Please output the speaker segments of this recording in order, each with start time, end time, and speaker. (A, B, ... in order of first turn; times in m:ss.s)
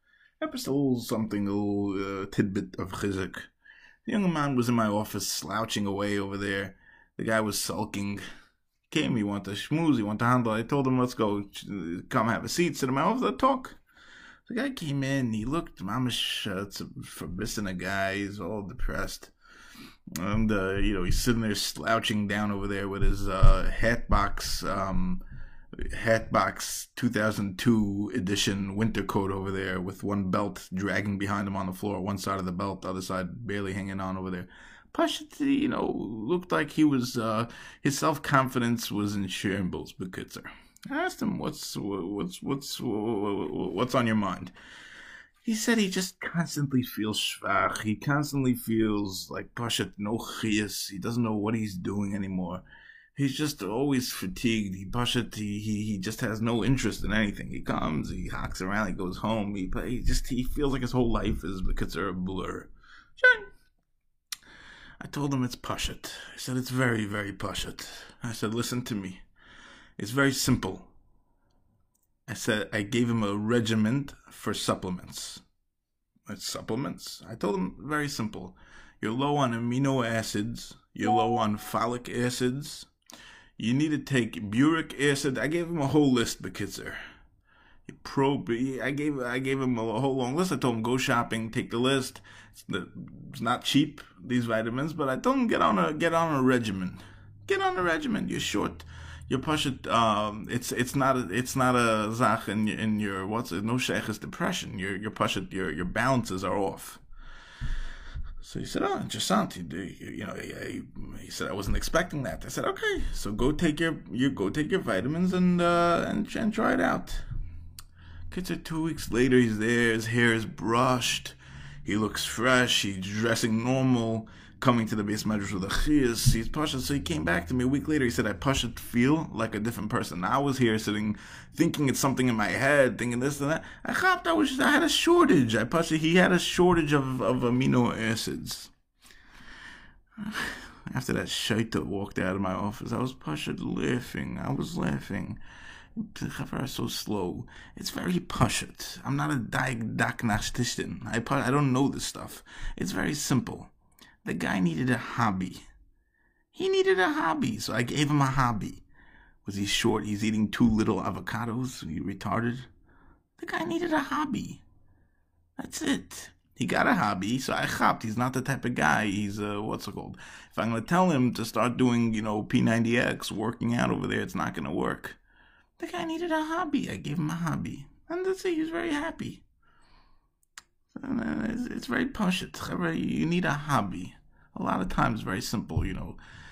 0:00.4-0:03.5 A
0:04.0-0:08.2 A
0:08.9-0:13.8 A
0:14.5-0:19.3 A
0:20.2-0:25.2 A
0:25.9-0:44.5 A
0:45.4-0:52.6 A
0:53.1-1:03.5 A
1:05.0-1:09.2 A
1:10.0-1:10.9 A
1:12.3-1:15.4 A
1:16.3-1:22.9 A
1:23.6-1:27.0 A
1:27.9-1:47.0 A
1:48.4-1:57.2 A
1:58.3-2:18.7 A
2:20.2-2:25.4 A
2:26.0-2:33.7 A
2:34.2-2:35.6 A
2:36.5-2:38.8 A
2:39.4-2:42.7 A
2:43.4-2:44.6 A
2:45.6-2:55.2 A
2:55.8-2:59.4 A
3:01.0-3:06.2 A